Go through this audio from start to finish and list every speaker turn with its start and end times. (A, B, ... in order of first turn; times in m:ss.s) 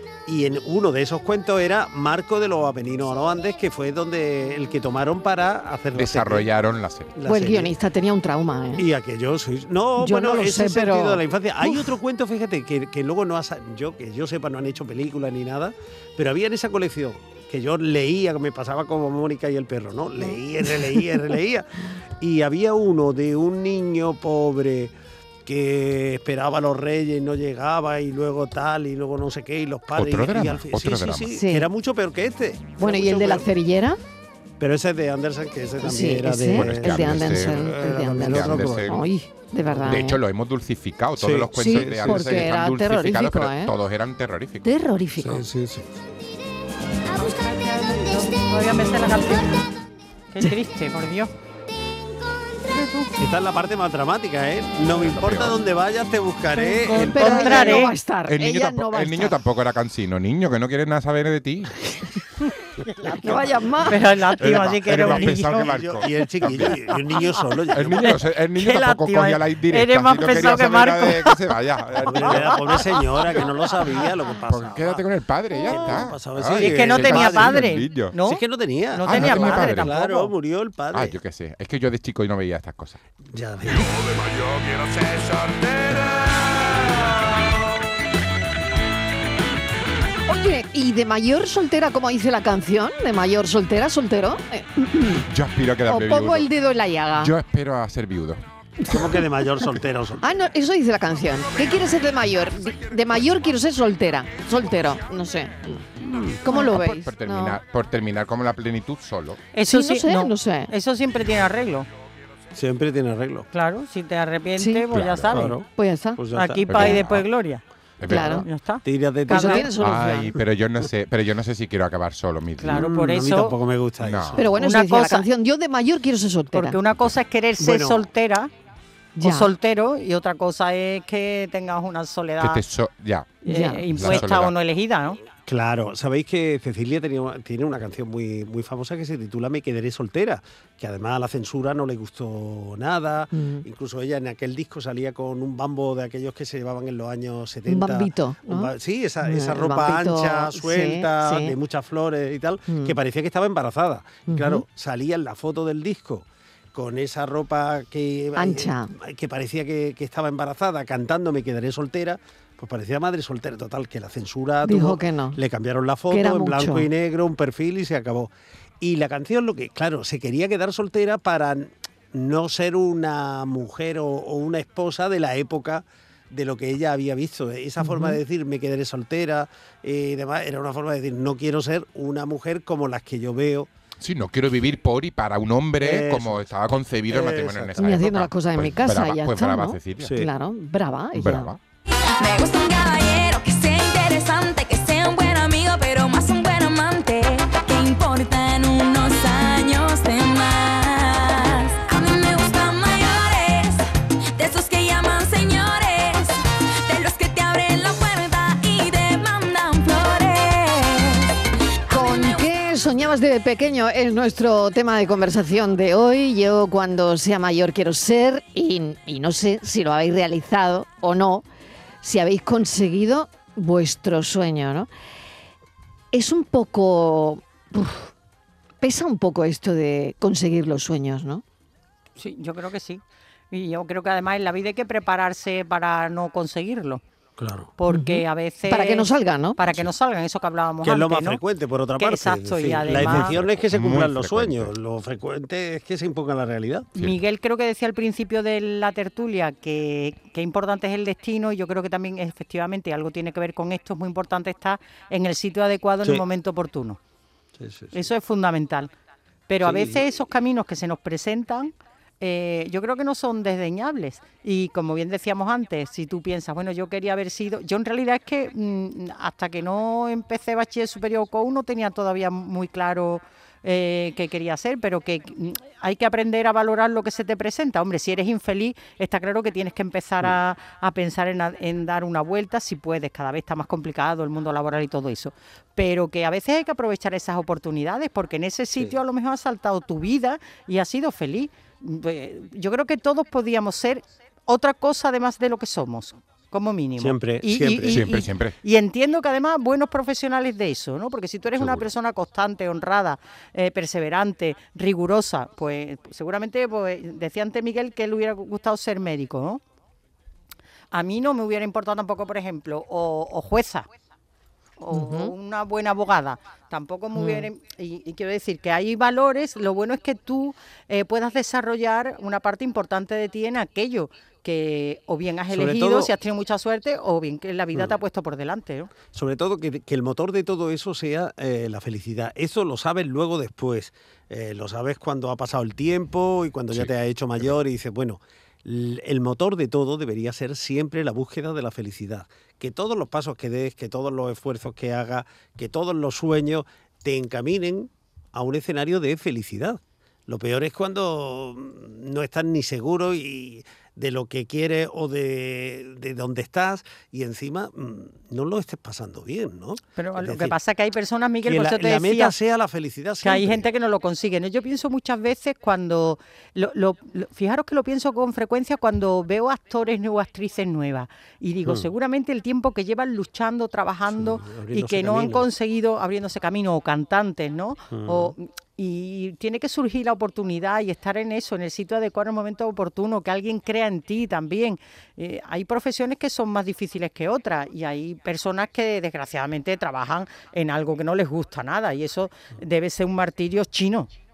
0:00.3-0:06.5 A
0:05.9-0:07.1 B
0:07.2-0:07.7 A
0:07.3-0:08.9 C
0:08.8-0:21.7 A
0:10.0-0:12.0 C
0:22.2-0:24.9 A
0:25.4-0:33.5 A
0:29.9-0:31.3 B
0:31.3-0:31.7 C
0:32.8-0:34.0 C
0:34.6-0:39.0 A
0:35.8-0:40.2 C
0:36.5-0:39.0 B
0:39.7-0:40.0 A
0:39.8-0:44.7 B
0:41.2-0:42.5 A
0:41.6-0:43.7 C
0:44.6-0:45.4 C
0:45.2-0:46.0 A
0:47.2-0:49.6 D
0:50.3-0:51.3 D
0:52.7-0:53.1 D
0:53.2-0:57.9 A
0:55.0-0:55.6 B
0:56.6-0:57.9 D
0:56.9-0:59.4 C
0:58.3-1:01.7 B
1:03.0-1:04.0 C
1:03.9-1:05.7 D
1:04.4-1:08.2 A
1:04.4-1:06.8 B
1:07.7-1:12.6 B
1:08.1-1:11.4 D
1:12.0-1:15.1 A
1:12.2-1:12.8 D
1:14.5-1:18.1 B
1:15.6-1:21.2 A
1:16.6-1:18.4 D
1:19.0-1:20.3 D
1:19.1-1:20.0 B
1:20.9-1:23.0 B
1:23.2-1:23.9 A
1:30.3-1:35.2 C
1:35.3-1:36.5 B
1:35.9-1:37.3 C
1:37.2-1:38.4 B
1:38.9-1:40.2 A
1:40.2-1:45.8 C
1:46.0-1:46.4 A
1:46.4-1:47.6 C
1:46.5-1:49.4 B
1:49.5-1:51.9 D
1:49.7-1:50.7 C
1:52.6-1:53.5 A
1:53.5-1:55.6 D
1:54.6-1:54.8 C
1:54.9-1:55.3 B
1:55.3-1:55.7 A
1:55.5-1:56.2 C
1:56.2-1:57.0 A
1:56.3-1:57.6 D
1:56.7-1:57.2 B
1:58.0-1:58.4 B
1:58.1-1:58.5 C
1:58.1-1:59.7 D
1:58.8-1:59.8 A
1:59.3-2:00.4 C
1:59.7-2:02.9 B
2:02.6-2:03.6 D
2:02.7-2:04.5 A
2:04.0-2:04.4 B
2:04.4-2:06.8 C
2:04.6-2:05.3 D
2:06.5-2:08.5 D
2:07.6-2:08.1 A
2:09.2-2:09.5 C
2:09.2-2:12.6 D
2:12.4-2:13.4 B
2:13.4-2:15.2 D
2:13.5-2:14.1 C
2:13.9-2:14.5 B
2:15.4-3:03.7 A
2:23.3-2:23.6 C
2:27.7-2:31.6 C
2:32.7-2:33.0 C
2:34.3-2:34.6 C
2:38.4-2:38.9 C
2:44.6-2:45.4 C
2:46.1-2:46.9 C
2:57.8-2:58.2 C
3:04.0-3:10.2 B
3:05.8-3:06.5 A
3:07.1-3:08.0 A
3:07.8-3:11.5 C
3:10.0-3:10.3 A
3:11.1-3:11.6 B
3:12.2-3:23.8 E
3:24.4-3:31.3 E
3:31.9-3:41.4 C
3:31.9-3:32.4 E
3:42.0-3:44.9 C
3:46.1-3:48.1 C
3:48.8-3:51.4 C
3:52.2-3:57.0 D
3:57.4-3:57.7 A
3:57.8-4:01.4 D
3:57.9-3:59.6 C
4:00.8-4:07.0 A
4:02.0-4:03.4 D
4:02.9-4:04.7 B
4:07.0-4:17.0 D
4:17.6-4:18.0 A
4:17.9-4:18.9 D
4:19.5-5:09.6 D
4:19.6-4:20.1 A
4:57.0-4:58.0 A
4:57.9-4:58.6 B
5:10.9-5:13.9 D
5:14.8-5:28.9 D
5:14.9-5:15.3 C
5:17.1-5:17.5 C
5:25.5-5:26.1 A
5:29.1-6:00.6 A
5:36.7-5:37.6 B
6:00.0-6:02.4 D
6:01.4-6:03.7 A
6:03.2-6:34.1 D
6:14.1-6:15.5 A
6:17.9-6:18.4 A